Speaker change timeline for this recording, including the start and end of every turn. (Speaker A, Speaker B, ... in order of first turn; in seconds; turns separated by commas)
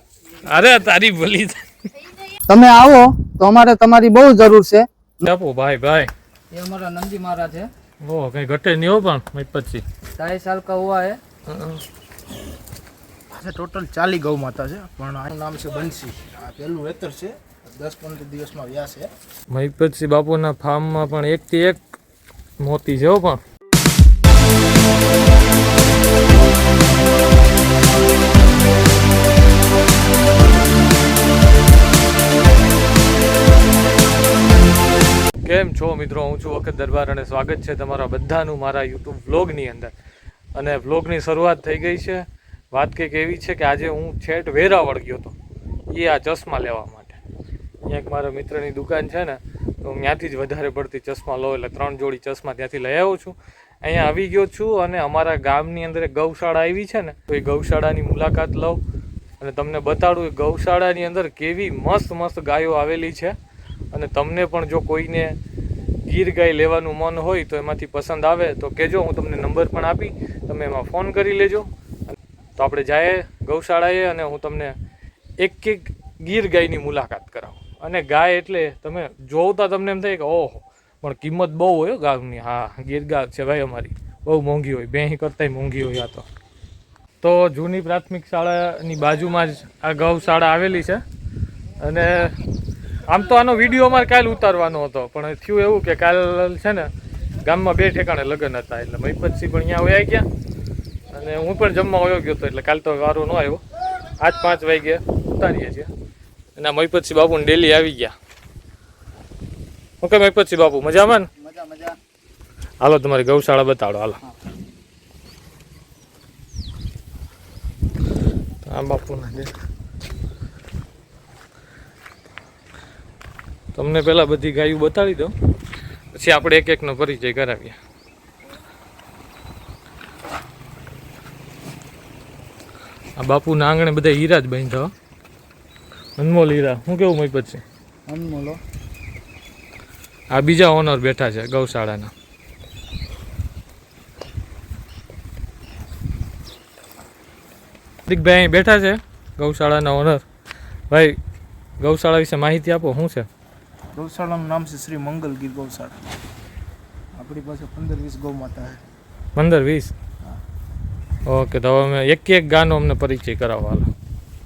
Speaker A: 0.5-1.6, Speaker B: 2.5-5.2, Speaker A: 5.2-6.1, Speaker B: 6.5-7.7, Speaker A: 8.0-9.8, Speaker B: 10.2-11.2, Speaker A: 11.5-11.8, Speaker C: 13.3-19.1, Speaker A: 19.5-21.8, Speaker A: 22.6-23.4, Speaker A: 35.4-39.9, Speaker A: 40.6-45.4, Speaker A: 45.9-47.2, Speaker A: 47.9-58.8, Speaker A: 59.4-63.4, Speaker A: 63.9-65.4, Speaker A: 66.1-74.8, Speaker A: 75.4-86.2, Speaker A: 87.2-91.0, Speaker A: 91.8-92.4, Speaker A: 93.1-96.9, Speaker A: 97.5-100.2, Speaker A: 101.1-103.6, Speaker A: 104.2-105.9, Speaker A: 106.6-108.1, Speaker A: 110.0-111.3, Speaker B: 111.4-112.0, Speaker A: 112.8-114.2, Speaker A: 118.7-119.5, Speaker A: 123.8-125.3, Speaker A: 126.1-127.8, Speaker A: 133.2-134.9, Speaker A: 136.2-137.6, Speaker B: 138.1-138.6, Speaker A: 140.3-142.1, Speaker A: 148.1-150.2, Speaker A: 150.9-151.2, Speaker A: 151.8-153.3, Speaker C: 153.9-156.0, Speaker C: 157.2-158.8, Speaker A: 159.4-159.9, Speaker A: 161.3-163.9